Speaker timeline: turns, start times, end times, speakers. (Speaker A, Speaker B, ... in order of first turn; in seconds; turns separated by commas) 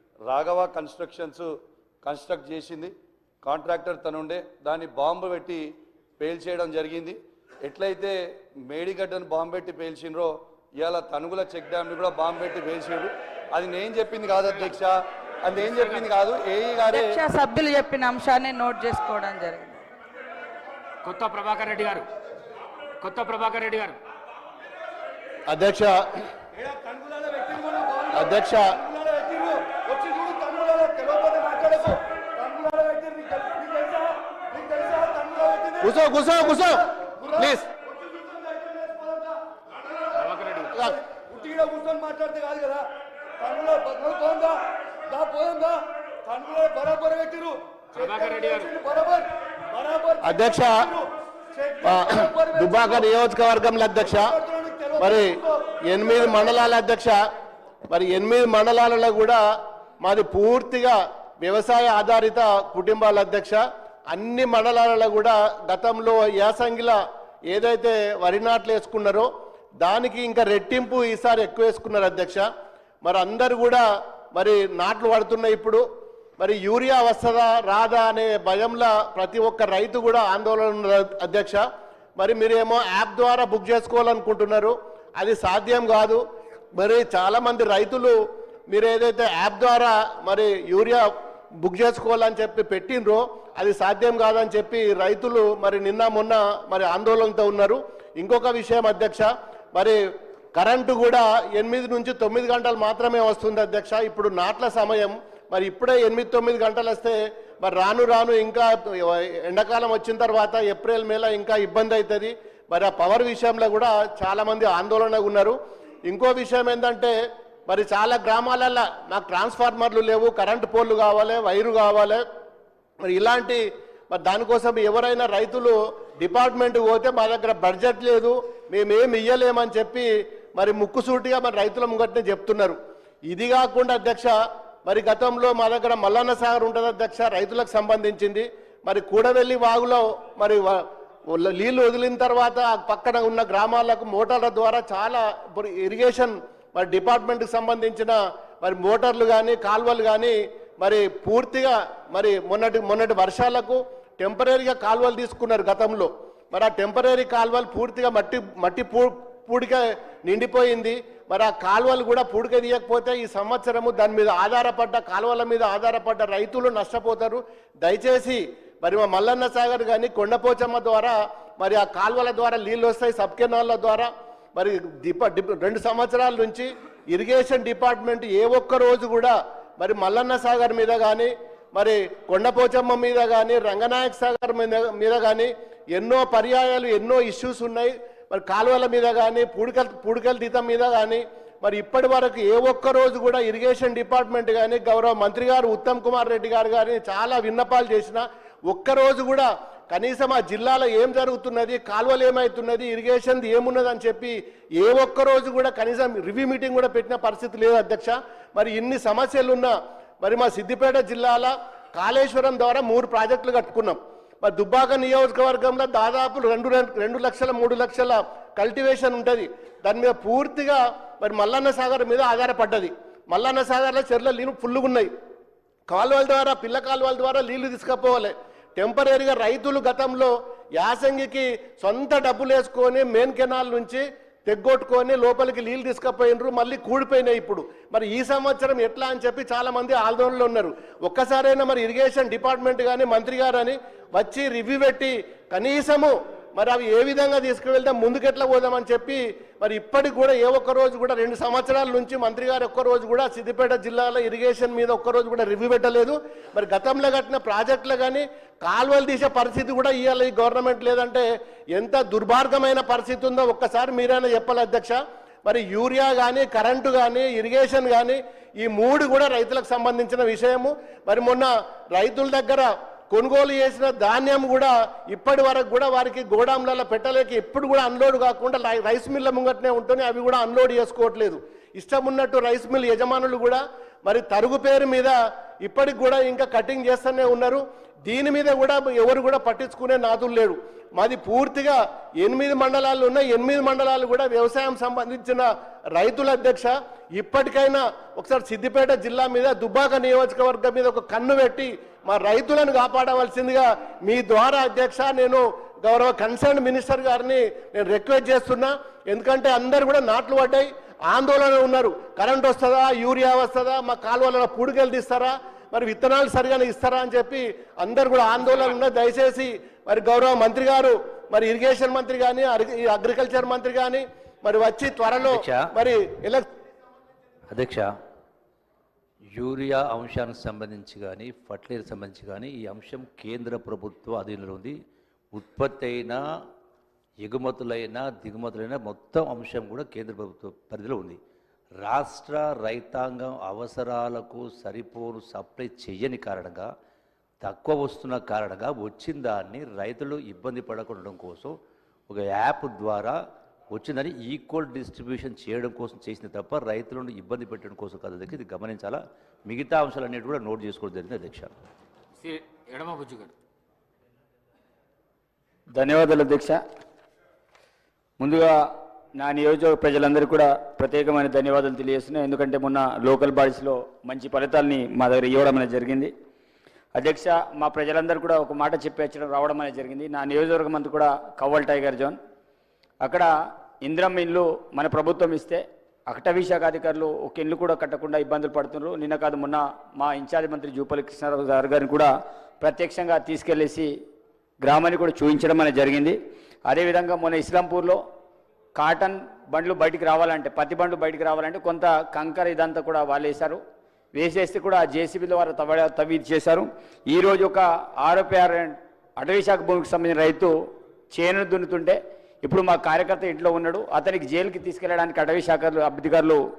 Speaker A: 0.3-2.9, Speaker A: 3.4-8.1, Speaker A: 8.7-17.2, Speaker B: 16.9-19.8, Speaker C: 21.0-22.1, Speaker C: 23.0-24.0, Speaker D: 25.5-26.2, Speaker A: 26.6-39.3, Speaker D: 28.1-28.7, Speaker D: 35.8-36.7, Speaker C: 40.1-40.8, Speaker A: 40.8-42.8, Speaker A: 43.4-51.0, Speaker C: 47.9-48.7, Speaker D: 50.2-50.8, Speaker A: 51.5-53.1, Speaker D: 51.8-54.3, Speaker A: 54.0-56.6, Speaker D: 55.0-55.3, Speaker D: 55.8-57.2, Speaker D: 57.9-59.4, Speaker D: 60.0-67.0, Speaker D: 67.5-69.3, Speaker D: 69.8-72.4, Speaker D: 73.0-73.8, Speaker D: 74.3-75.8, Speaker D: 76.4-81.6, Speaker D: 82.2-86.2, Speaker D: 86.8-88.1, Speaker D: 88.7-91.0, Speaker D: 91.6-100.0, Speaker D: 100.5-115.5, Speaker D: 116.1-117.1, Speaker D: 117.7-122.2, Speaker D: 123.0-132.8, Speaker D: 133.3-134.3, Speaker D: 134.8-225.1, Speaker D: 225.9-326.4, Speaker E: 325.2-325.7, Speaker E: 327.5-327.9, Speaker E: 329.3-334.8, Speaker E: 335.3-336.2, Speaker E: 337.2-341.2, Speaker E: 341.8-346.7, Speaker E: 347.4-351.5, Speaker E: 352.1-353.2, Speaker E: 353.7-361.5, Speaker C: 362.2-363.3, Speaker F: 365.7-366.6, Speaker F: 368.2-376.1, Speaker F: 376.9-382.2, Speaker F: 383.0-383.3, Speaker F: 383.8-393.9, Speaker F: 394.6-398.0, Speaker F: 398.8-403.6, Speaker F: 404.1-410.5, Speaker F: 411.1-416.4